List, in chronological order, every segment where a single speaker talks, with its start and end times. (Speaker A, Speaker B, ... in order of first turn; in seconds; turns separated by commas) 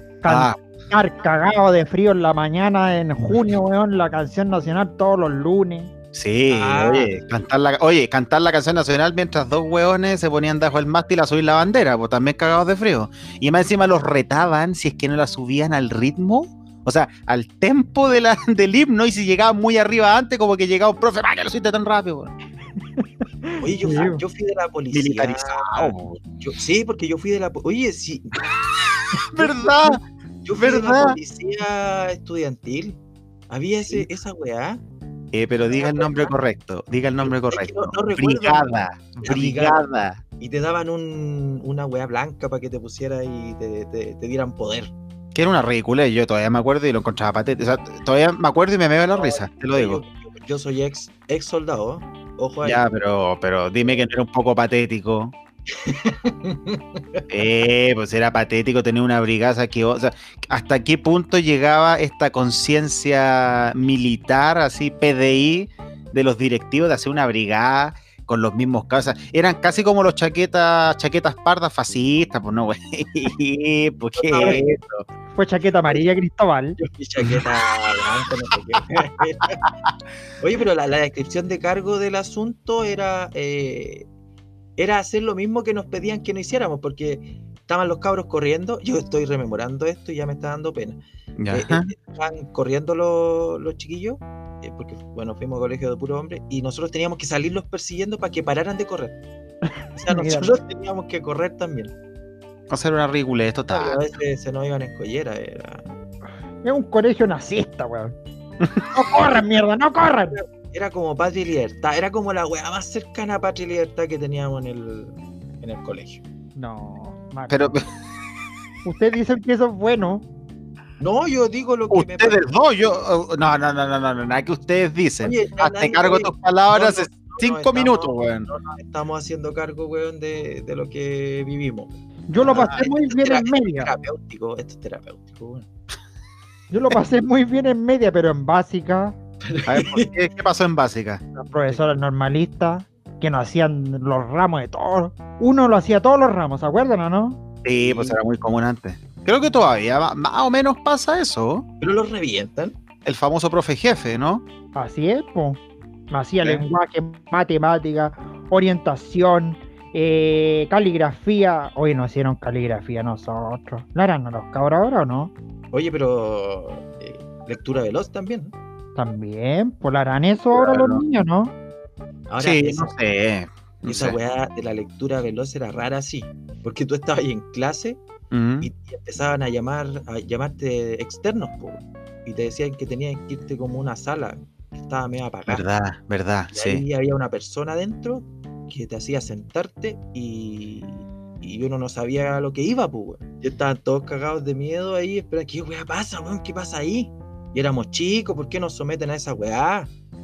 Speaker A: 0.2-5.9, Speaker B: 0.3-0.6, Speaker B: 6.1-22.3, Speaker C: 6.5-7.1, Speaker A: 23.0-24.2, Speaker C: 23.6-28.5, Speaker B: 24.9-26.2, Speaker B: 29.1-30.0, Speaker C: 30.4-33.0, Speaker B: 30.6-31.2, Speaker C: 33.5-34.8, Speaker B: 35.3-40.2, Speaker C: 35.7-36.3, Speaker C: 37.2-39.8, Speaker C: 40.4-44.9, Speaker B: 45.3-50.0, Speaker C: 49.1-52.8, Speaker B: 52.6-55.4, Speaker C: 55.7-57.3, Speaker B: 57.3-75.0, Speaker C: 74.2-74.7, Speaker A: 75.3-76.8, Speaker C: 76.8-79.6, Speaker B: 77.2-77.5, Speaker C: 80.4-84.1, Speaker C: 84.8-91.0, Speaker B: 91.4-91.9, Speaker C: 91.5-99.2, Speaker C: 100.0-101.9, Speaker A: 100.1-100.5, Speaker B: 102.7-104.0, Speaker C: 103.7-105.9, Speaker A: 106.6-108.2, Speaker B: 108.6-108.9, Speaker A: 108.9-110.4, Speaker C: 110.3-116.2, Speaker A: 116.6-117.8, Speaker B: 117.5-117.8, Speaker A: 118.8-120.3, Speaker C: 121.0-122.5, Speaker B: 121.9-128.5, Speaker C: 125.2-135.7, Speaker A: 132.3-133.9, Speaker B: 132.5-132.8, Speaker A: 136.7-139.2, Speaker C: 139.4-140.1, Speaker B: 139.7-141.2, Speaker A: 141.3-147.4, Speaker B: 147.6-151.7, Speaker C: 147.8-148.2, Speaker C: 151.8-152.8, Speaker B: 153.1-154.4, Speaker A: 154.8-165.3, Speaker C: 165.7-168.5, Speaker A: 169.0-171.5, Speaker B: 170.5-171.0, Speaker C: 172.3-172.9, Speaker B: 172.4-174.2, Speaker C: 173.9-178.0, Speaker B: 178.3-178.7, Speaker C: 178.6-185.6, Speaker B: 185.5-186.8, Speaker C: 186.5-199.9